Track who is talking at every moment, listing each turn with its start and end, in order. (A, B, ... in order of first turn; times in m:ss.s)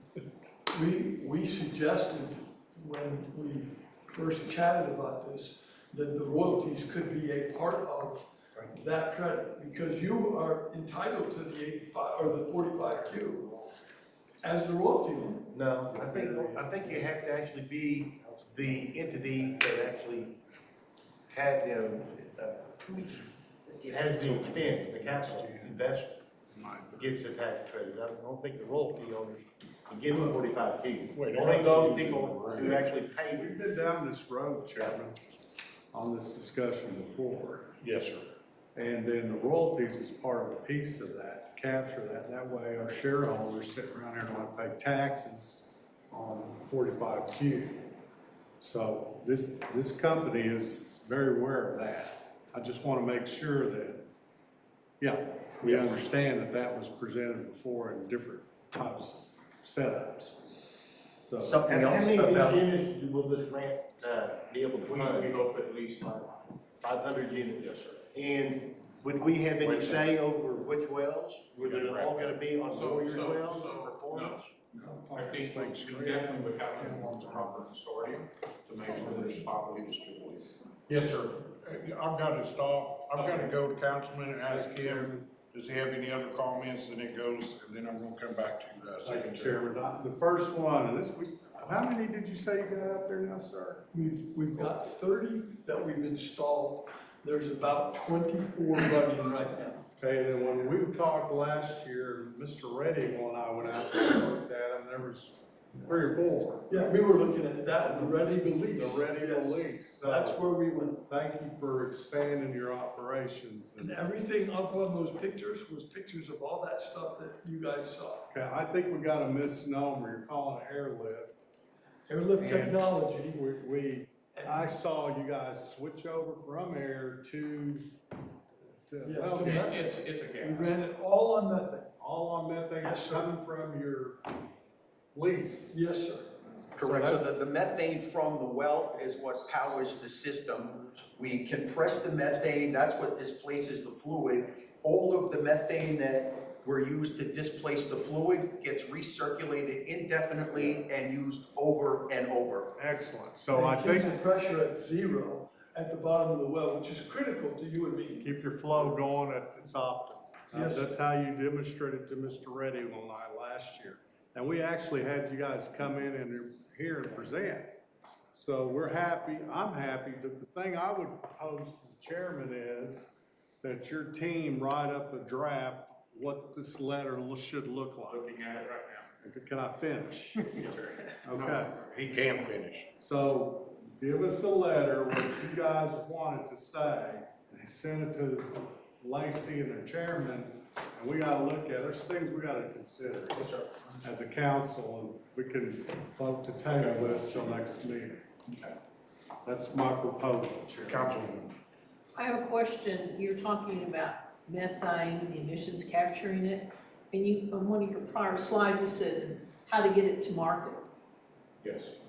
0:00.7-0:13.5 A
0:14.4-0:15.5 A
0:15.5-0:20.3 B
0:15.9-0:17.1 C
0:18.2-0:19.9 C
0:21.3-0:26.2 B
0:24.1-0:25.8 C
0:26.5-0:27.1 C
0:26.9-0:33.5 B
0:31.1-0:32.7 D
0:32.1-0:35.2 C
0:35.9-0:37.7 C
0:37.8-0:38.3 D
0:38.7-0:47.9 C
0:48.6-0:54.1 C
0:55.0-1:00.5 C
1:01.2-1:01.6 C
1:01.4-1:02.7 E
1:01.6-1:05.4 B
1:04.8-1:06.5 F
1:06.8-1:14.5 B
1:09.7-1:10.0 F
1:11.6-1:20.6 F
1:14.7-1:17.6 C
1:19.1-1:19.4 G
1:20.9-1:29.6 D
1:23.2-1:23.5 F
1:24.4-1:25.3 C
1:29.0-1:33.8 C
1:33.9-1:39.8 A
1:40.0-1:46.9 C
1:46.7-1:51.0 A
1:47.8-1:50.4 C
1:51.1-1:54.0 C
1:53.8-1:58.3 A
1:58.3-2:01.3 C
2:02.1-2:03.4 A
2:02.4-2:07.9 C
2:04.3-2:04.7 A
2:08.9-2:09.8 C
2:09.0-2:11.9 A
2:09.4-2:10.7 F
2:12.0-2:14.2 C
2:12.8-2:13.3 A
2:15.1-2:15.8 C
2:15.7-2:16.4 A
2:16.8-2:17.4 C
2:16.8-2:32.7 E
2:32.8-2:34.2 C
2:33.5-2:38.2 A
2:38.2-2:47.8 C
2:40.5-2:40.9 A
2:48.3-2:58.2 C
2:58.1-2:59.1 F
2:59.2-3:00.6 C
3:00.6-3:01.1 F
3:01.2-3:01.7 C
3:01.3-3:02.9 D
3:03.0-3:13.5 C
3:13.3-3:14.0 F
3:14.0-3:18.2 C
3:18.5-3:18.8 F
3:19.4-3:21.1 C
3:20.8-3:21.5 D
3:22.2-3:30.8 G
3:31.6-3:31.9 F